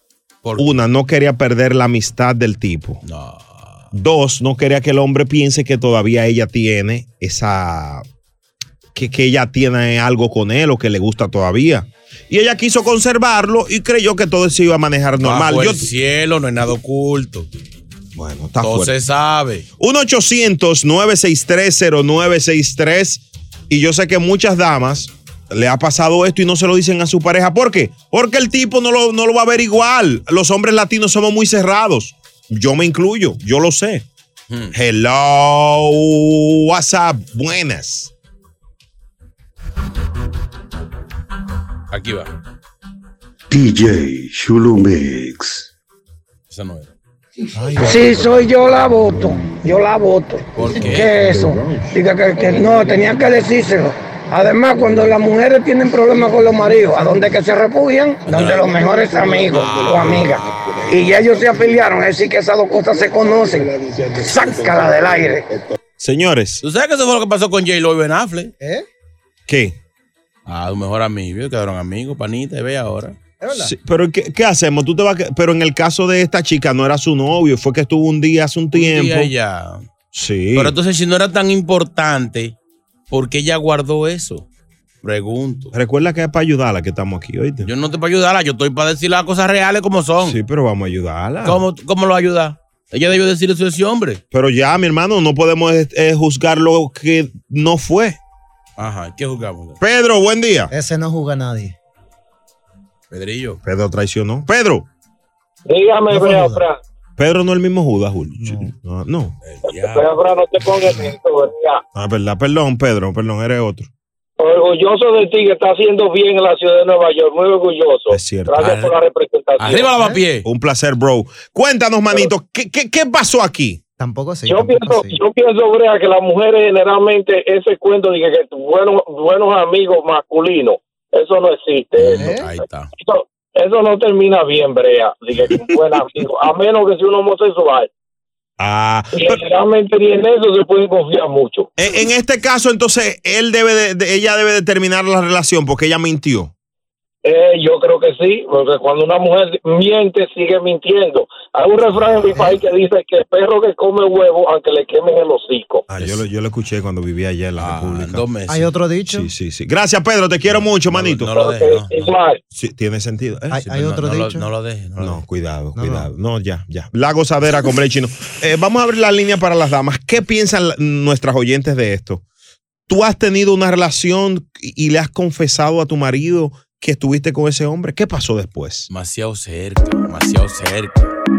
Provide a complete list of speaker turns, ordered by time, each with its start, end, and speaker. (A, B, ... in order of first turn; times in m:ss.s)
0:00.6-0:03.0 A
0:03.0-0:03.9 B
0:03.9-0:08.0 A
0:08.9-0:15.8 A
0:15.2-0:17.5 B
0:18.1-0:18.9 A
0:18.6-0:19.6 B
0:19.8-0:34.0 A
0:34.7-0:38.1 A
0:41.9-0:42.3 B
0:43.5-0:45.6 C
0:46.5-0:46.9 B
0:47.6-0:48.0 A
0:47.7-0:48.0 D
0:47.8-1:05.5 E
0:50.5-0:51.2 B
0:58.2-0:58.8 B
0:59.6-1:00.2 B
1:06.0-1:06.6 A
1:06.6-1:08.5 B
1:09.5-1:09.8 A
1:10.5-1:13.2 B
1:13.4-1:13.7 D
1:13.5-1:19.3 A
1:18.7-1:19.8 B
1:20.1-1:20.7 A
1:20.5-1:22.5 B
1:23.1-1:24.4 B
1:25.0-1:25.7 B
1:25.7-1:27.7 A
1:27.6-1:30.4 B
1:30.2-1:31.6 A
1:31.4-1:34.2 B
1:34.3-1:38.2 A
1:38.8-1:39.8 B
1:39.8-1:40.7 A
1:40.7-1:41.7 D
1:43.1-1:43.6 B
1:43.6-1:44.9 A
1:45.6-1:46.8 F
1:46.1-1:46.6 D
1:47.2-1:49.3 A
1:48.4-1:48.7 D
1:49.4-1:50.1 B
1:49.6-1:51.8 F
1:51.9-1:53.9 A
1:54.4-1:59.9 F
1:58.1-1:58.6 A
1:58.6-1:58.9 B
1:59.6-2:00.4 B
2:00.4-2:03.8 A
2:04.0-2:05.2 D
2:04.4-2:12.3 F
2:12.0-2:12.9 B
2:12.1-2:12.5 D
2:13.0-2:17.9 F
2:18.6-2:19.4 A
2:19.1-2:21.7 F
2:21.8-2:26.5 A
2:27.2-2:35.8 F
2:35.9-2:38.2 A
2:36.0-2:36.2 B
2:37.6-2:38.7 B
2:38.5-2:39.3 D
2:39.1-2:41.4 A
2:40.5-2:42.1 B
2:41.3-2:42.4 F
2:42.5-2:43.6 A
2:43.5-2:44.5 D
2:43.6-2:45.2 B
2:45.0-2:52.2 A
2:45.7-2:46.1 D
2:52.9-2:58.9 A
2:58.9-3:01.1 B